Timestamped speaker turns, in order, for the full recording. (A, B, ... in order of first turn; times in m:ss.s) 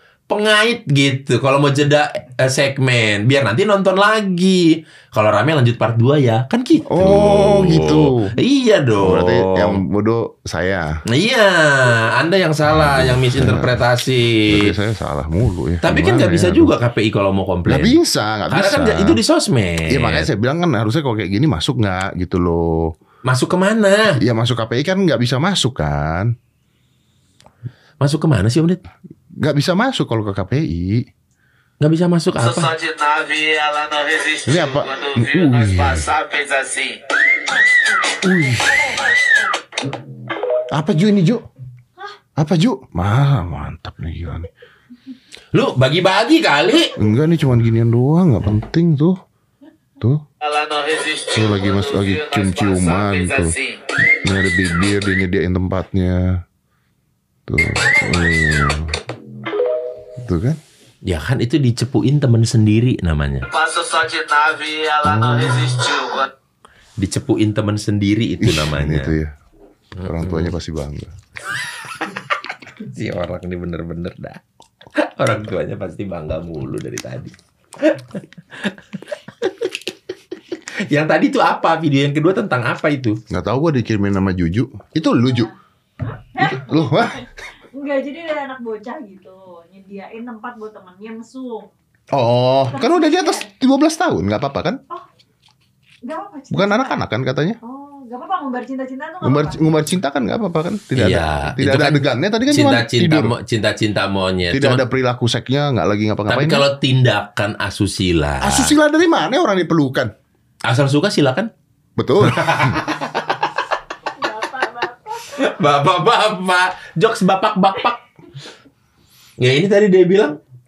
0:00.3-0:09.8 A
0:06.9-0:08.3 B
0:09.0-0:11.0 B
0:11.1-0:14.7 A
0:12.7-0:13.8 B
0:14.5-0:16.7 B
0:15.8-0:17.9 A
0:17.7-0:19.2 B
0:18.5-0:20.3 A
0:19.9-0:22.9 B
0:23.2-0:24.2 A
0:24.2-0:26.3 B
0:28.0-0:28.8 A
0:29.4-0:31.1 B
0:31.8-0:32.7 A
0:32.4-0:37.0 C
0:34.5-0:36.1 B
0:38.2-0:38.9 B
0:40.7-0:41.4 B
0:42.4-0:44.5 B
0:45.5-0:46.9 A
0:47.0-0:49.2 B
0:50.4-0:53.8 C
0:51.3-0:53.5 B
0:54.2-0:56.4 B
0:57.5-0:59.0 B
1:00.2-1:00.6 B
1:01.0-1:03.4 A
1:03.5-1:06.3 C
1:05.2-1:05.6 B
1:07.0-1:09.1 A
1:08.4-1:09.3 B
1:10.0-1:10.5 A
1:10.0-1:11.1 B
1:12.8-1:14.4 A
1:15.0-1:18.8 A
1:19.4-1:19.7 A
1:20.9-1:23.2 A
1:23.3-1:25.5 B
1:26.1-1:31.7 D
1:26.4-1:27.2 B
1:32.1-1:34.8 B
1:32.7-1:33.5 D
1:36.0-1:37.0 D
1:36.5-1:37.6 B
1:37.6-1:39.6 D
1:39.2-1:43.3 B
1:41.0-1:44.8 A
1:44.5-1:46.6 B
1:46.3-1:48.7 A
1:48.4-1:50.1 B
1:50.6-1:51.5 A
1:52.0-1:52.8 B
1:52.2-1:53.5 A
1:54.2-1:55.3 D
1:55.2-1:58.0 A
1:59.4-2:00.4 A